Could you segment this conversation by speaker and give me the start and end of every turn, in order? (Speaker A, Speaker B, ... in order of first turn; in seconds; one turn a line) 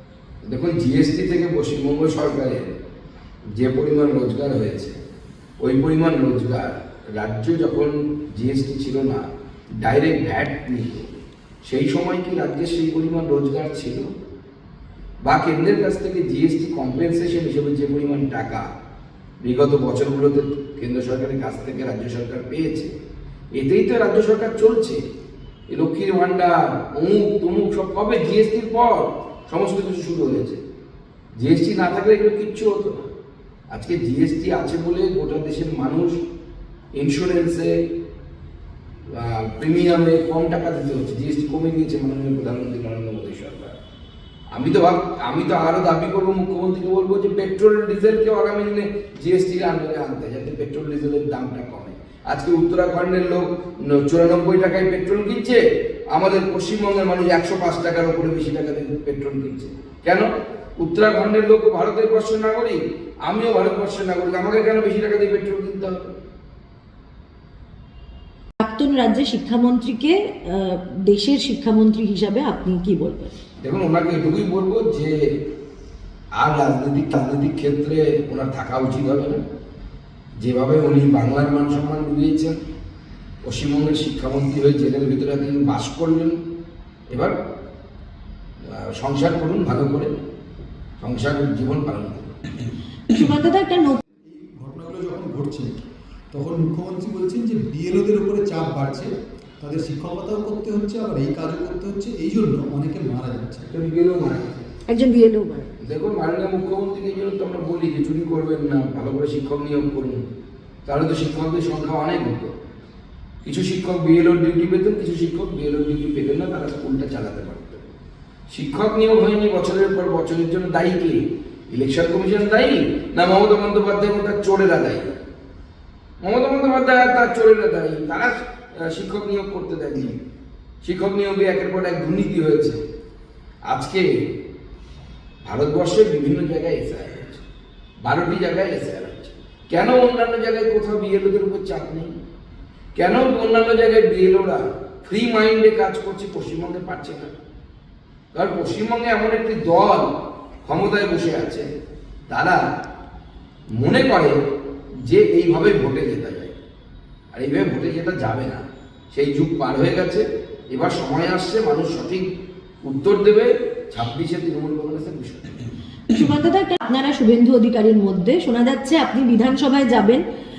Speaker A: 0.4-2.7
Speaker A: 3.5-4.9
Speaker A: 5.6-9.2
Speaker A: 9.8-11.1
Speaker A: 11.7-14.1
Speaker A: 15.2-18.6
Speaker A: 19.4-22.9
Speaker A: 23.5-25.0
Speaker A: 25.7-30.6
Speaker A: 31.4-33.0
Speaker A: 33.7-36.1
Speaker A: 37.0-37.7
Speaker A: 39.1-43.7
Speaker A: 44.5-60.2
Speaker A: 60.8-66.0
Speaker B: 68.6-73.3
Speaker A: 73.6-75.3
Speaker A: 76.4-79.4
Speaker A: 80.4-82.6
Speaker A: 83.4-86.3
Speaker A: 88.7-90.1
Speaker A: 91.0-92.3
Speaker B: 93.1-94.0
Speaker C: 94.2-95.8
Speaker C: 96.3-99.1
Speaker C: 99.6-103.7
Speaker A: 103.7-104.6
Speaker B: 104.9-105.7
Speaker A: 105.8-110.2
Speaker A: 110.8-112.5
Speaker A: 113.4-117.9
Speaker A: 118.5-125.1
Speaker A: 126.2-130.2
Speaker A: 130.8-132.8
Speaker A: 133.7-134.1
Speaker A: 135.4-137.4
Speaker A: 138.0-142.1
Speaker A: 142.9-147.3
Speaker A: 148.3-150.1
Speaker A: 150.6-151.7
Speaker A: 152.3-152.6
Speaker A: 153.8-154.3
Speaker A: 155.1-156.5
Speaker A: 157.3-158.6
Speaker A: 159.1-162.2
Speaker A: 162.8-165.7
Speaker B: 166.1-170.2